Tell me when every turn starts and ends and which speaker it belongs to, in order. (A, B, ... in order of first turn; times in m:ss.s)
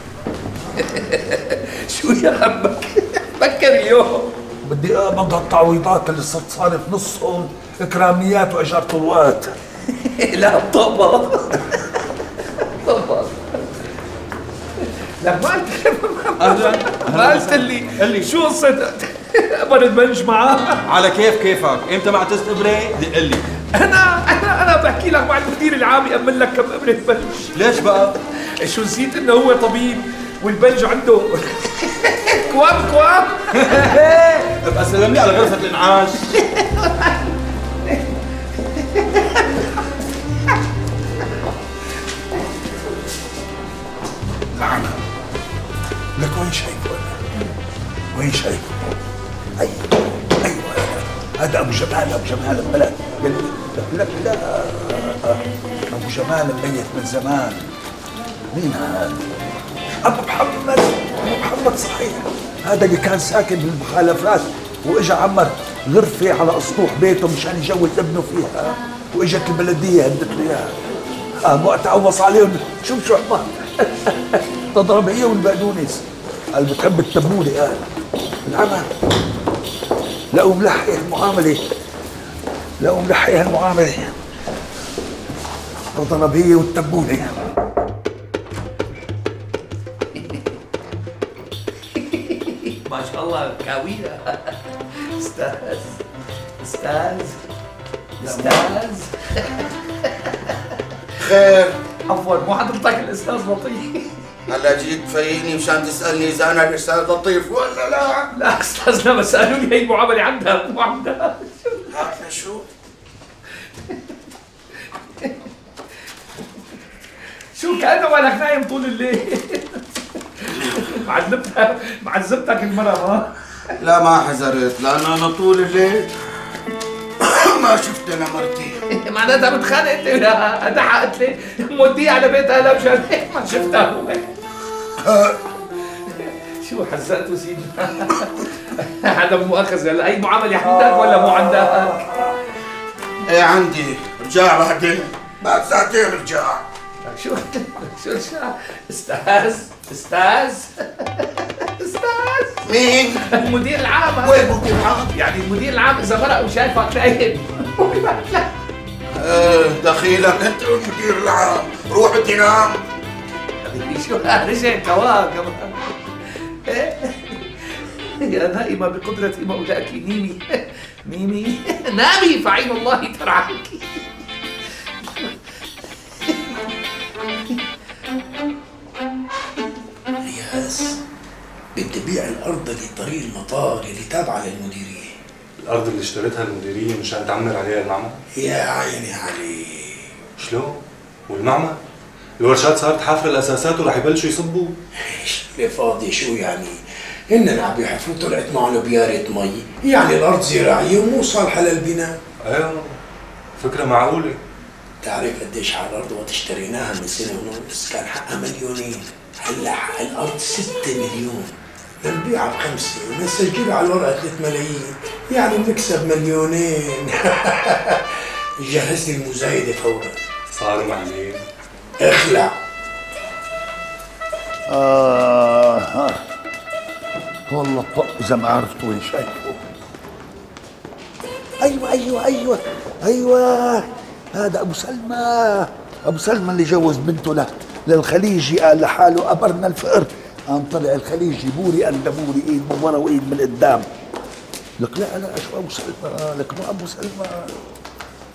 0:00.8-0:04.3 A
0:04.6-0:09.6 B
0:10.0-0:11.8 A
0:12.8-0:13.4 A
0:15.2-0:20.8 A
0:16.4-0:18.3 C
0:20.9-0:23.5 C
0:23.7-0:27.7 A
0:27.6-0:28.2 C
0:28.3-0:34.6 A
0:34.6-0:36.4 C
0:36.6-0:37.1 A
0:44.5-0:45.0 B
0:46.2-0:47.2 B
0:48.2-0:48.7 B
0:49.6-0:57.6 B
0:58.5-0:59.2 B
1:00.0-1:10.8 B
1:11.4-1:16.0 B
1:16.6-1:17.8 B
1:18.4-1:18.9 B
1:20.3-1:21.6 B
1:22.8-1:24.2 B
1:25.9-1:27.4 B
1:32.0-1:34.5 A
1:35.2-1:36.0 A
1:36.6-1:37.4 A
1:38.2-1:39.5 A
1:41.2-1:41.8 D
1:42.1-1:44.1 A
1:44.5-1:48.3 D
1:48.3-1:51.9 A
1:51.9-1:52.7 D
1:57.6-1:59.8 A
2:00.4-2:03.3 A
2:03.8-2:06.1 D
2:07.2-2:08.8 D
2:08.9-2:14.3 A
2:16.1-2:22.1 A
2:23.3-2:26.6 D
2:27.0-2:32.6 A
2:32.6-2:33.3 D
2:33.3-2:38.5 A
2:34.2-2:35.1 D
2:39.2-2:42.8 D
2:43.6-2:45.8 A
2:46.7-2:47.4 A
2:48.2-2:54.0 A
2:55.0-2:55.4 A
3:00.2-3:01.0 E
3:01.8-3:05.1 E
3:05.6-3:08.2 F
3:08.3-3:10.1 E
3:10.4-3:11.8 F
3:12.4-3:14.8 F
3:15.0-3:22.2 E
3:22.4-3:23.0 F
3:23.6-3:24.4 F
3:25.0-3:40.2 E
3:40.5-3:41.4 F
3:42.0-3:42.5 E
3:44.7-3:46.2 B
3:47.5-3:49.6 B
3:51.6-4:03.9 B
4:04.8-4:07.5 B